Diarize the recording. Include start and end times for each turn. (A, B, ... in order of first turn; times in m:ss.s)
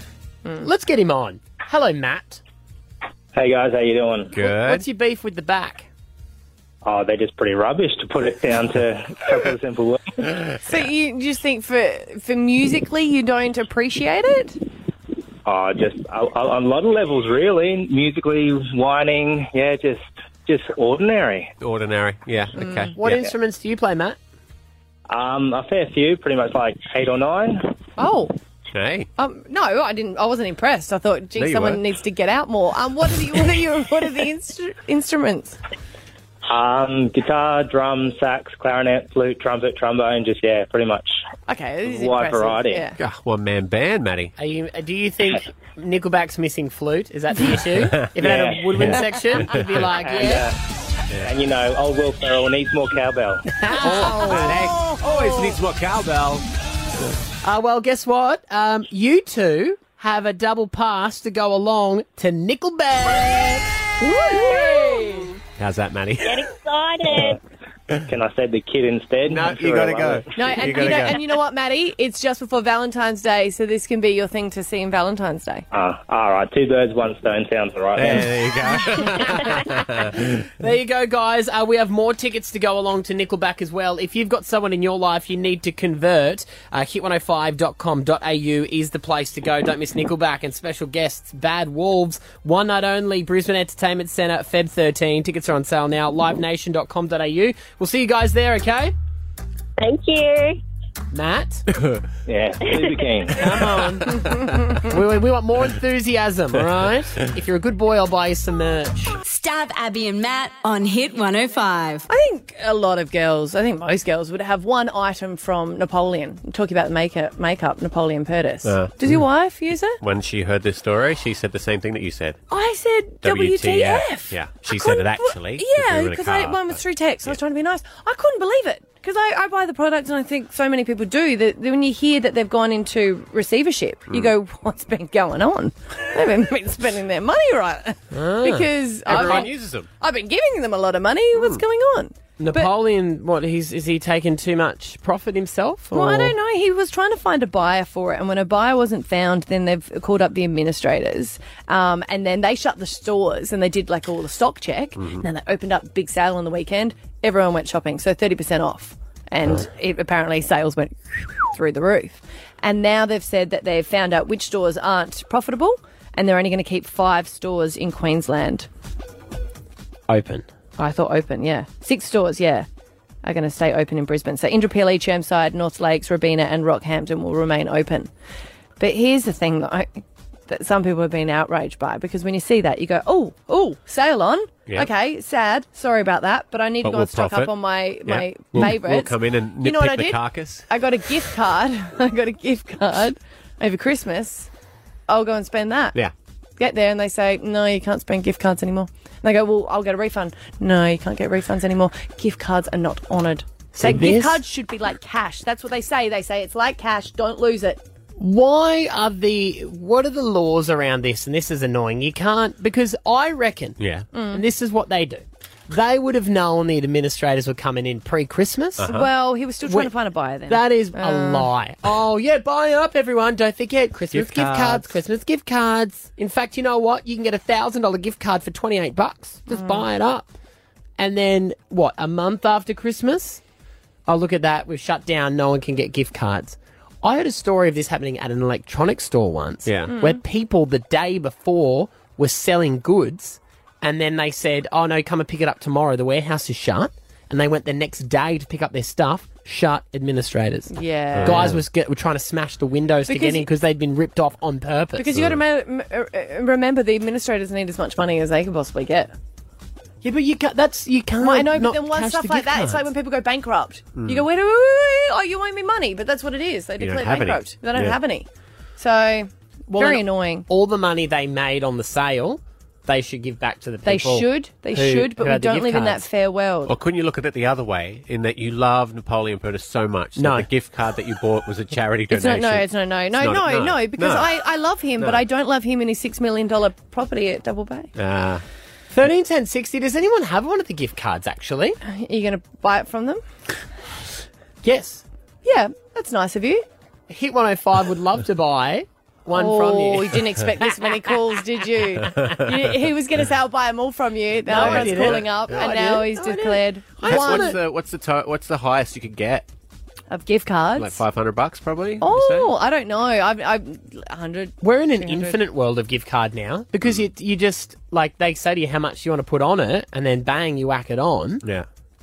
0:00.6-0:02.4 A
0:03.3-0:04.4 B
0:04.3-0:04.8 C
0:04.4-0:05.9 A
0:06.8-0:10.1 B
0:10.6-0:14.6 D
0:15.4-0:21.5 B
0:21.6-0:23.2 C
0:22.6-0:22.9 D
0:23.0-0:24.2 A
0:25.1-0:27.7 B
0:28.0-0:28.3 D
0:28.7-0:29.1 C
0:29.2-0:35.6 D
0:31.3-0:31.8 C
0:36.5-0:41.2 B
0:41.5-0:42.9 D
0:41.9-0:42.9 B
0:43.0-0:44.3 C
0:44.4-0:50.4 A
0:47.8-0:48.1 C
0:48.2-0:48.9 B
0:48.7-0:49.8 C
0:49.8-0:50.6 B
0:51.2-0:53.5 B
0:53.5-0:54.6 A
0:53.8-0:55.2 D
0:53.8-0:56.4 C
0:57.4-1:03.7 A
1:04.4-1:05.2 A
1:05.6-1:06.5 C
1:06.2-1:07.4 E
1:08.1-1:10.3 B
1:09.3-1:11.2 C
1:10.4-1:15.6 D
1:15.7-1:18.4 B
1:17.9-1:20.5 C
1:20.6-1:38.9 A
1:39.8-1:40.6 E
1:41.1-1:41.6 A
1:41.7-1:42.0 C
1:42.3-1:43.5 B
1:42.6-1:43.0 E
1:43.3-1:44.2 A
1:44.4-1:44.8 D
1:44.8-1:49.2 A
1:49.2-1:52.0 F
1:52.1-2:00.0 D
1:58.6-1:59.2 C
2:00.0-2:02.4 C
2:02.5-2:22.7 D
2:03.2-2:07.4 C
2:14.1-2:14.3 C
2:18.1-2:19.5 A
2:19.0-2:19.9 C
2:21.3-2:21.6 C
2:22.4-2:26.3 A
2:25.9-2:48.7 D
2:35.0-2:35.2 C
2:50.1-2:50.5 A
2:50.8-2:52.6 D
2:53.2-2:58.1 D
2:58.8-3:14.5 D
3:06.8-3:10.7 C
3:15.1-3:16.0 D
3:16.6-3:27.8 D
3:23.7-3:24.4 A
3:28.2-3:33.8 A
3:33.8-3:34.0 C
3:34.1-3:34.4 D
3:34.3-3:39.0 A
3:38.8-3:39.1 C
3:38.8-3:41.5 D
3:39.6-3:39.9 A
3:40.5-3:50.3 A
3:44.1-3:45.0 C
3:49.5-3:49.8 D
3:51.0-3:53.4 A
3:54.0-4:15.1 A
3:59.6-4:00.0 C
4:10.7-4:11.6 D
4:11.1-4:11.6 C
4:13.1-4:13.5 D
4:15.0-4:19.1 D
4:15.1-4:15.4 C
4:20.0-4:22.9 A
4:21.2-4:30.4 D
4:24.0-4:24.2 C
4:26.8-4:28.0 C
4:29.7-4:36.0 A
4:33.8-4:36.7 D
4:36.6-4:44.4 C
4:40.2-4:40.5 A
4:42.1-4:47.9 D
4:45.0-4:45.2 C
4:48.0-4:48.4 C
4:48.9-4:51.8 A
4:51.8-4:53.2 D
4:54.6-4:55.0 A
4:55.4-4:56.6 D
4:57.1-5:00.2 A
4:59.3-5:07.6 D
5:04.4-5:07.6 A
5:04.5-5:05.7 C
5:07.0-5:09.5 C
5:10.1-5:11.0 D
5:10.8-5:12.5 C
5:12.0-5:15.4 D
5:14.6-5:21.4 A